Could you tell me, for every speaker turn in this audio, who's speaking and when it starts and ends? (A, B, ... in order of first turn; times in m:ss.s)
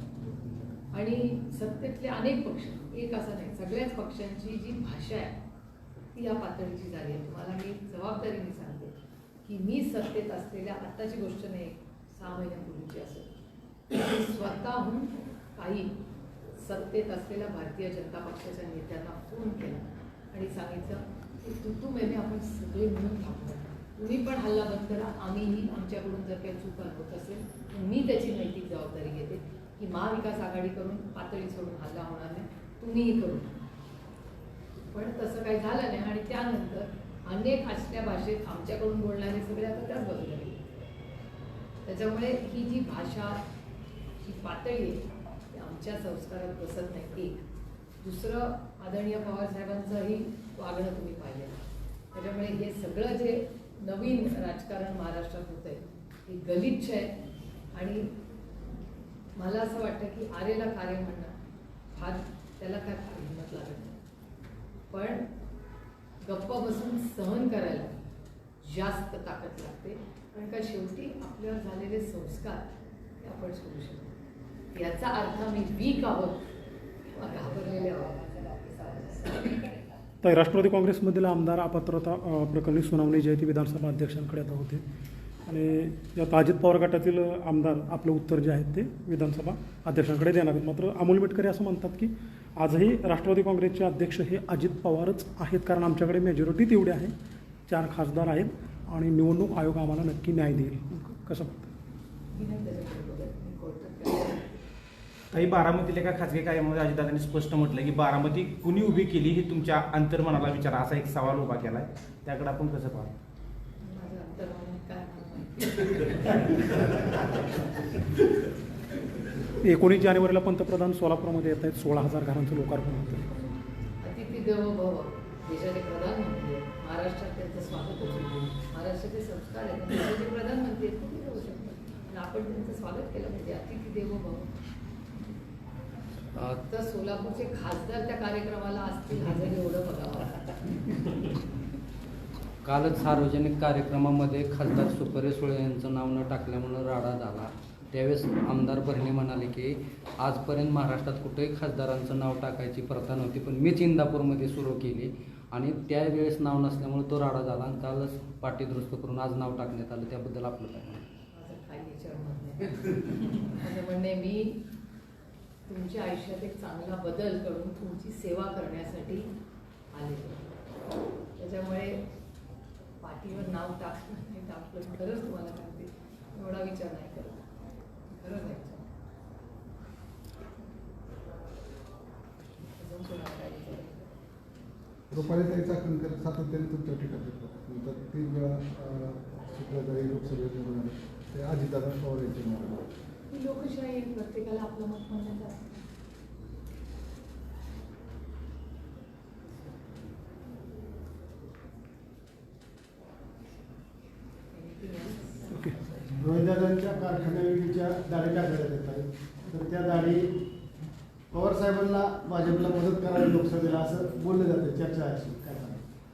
0:00.9-0:05.4 A
0:06.1-0:13.3 A
0:13.9-0:15.9 A
0:16.6-0:33.5 A
0:34.9-0:40.6 A
0:41.8-0:43.4 A
0:44.2-0:47.4 A
0:48.0-0:51.6 A
0:52.1-0:57.1 A
0:57.7-0:58.1 A
0:59.4-1:01.3 A
1:01.9-1:04.0 A
1:04.9-1:05.2 A
1:06.2-1:07.9 A
1:08.6-1:12.6 A
1:13.2-1:14.1 A
1:14.7-1:16.4 A
1:17.1-1:19.9 A
1:20.2-1:24.8 B
1:25.5-1:37.1 B
1:37.7-1:41.7 B
1:42.3-1:44.6 A
1:45.3-1:53.1 C
1:53.8-1:57.5 A
1:59.6-2:03.4 B
2:04.0-2:14.5 A
2:16.4-2:20.5 A
2:22.6-2:41.0 D
2:41.3-2:44.6 A
2:45.7-2:49.3 A
2:49.9-2:50.6 A
2:51.4-2:52.0 A
2:53.0-2:57.4 A
2:58.1-2:58.9 A
3:02.8-3:04.1 A
3:05.1-3:12.8 E
3:13.3-3:15.9 A
3:24.5-3:26.2 A
3:26.2-3:27.4 E
3:26.4-3:30.4 F
3:31.3-3:35.8 F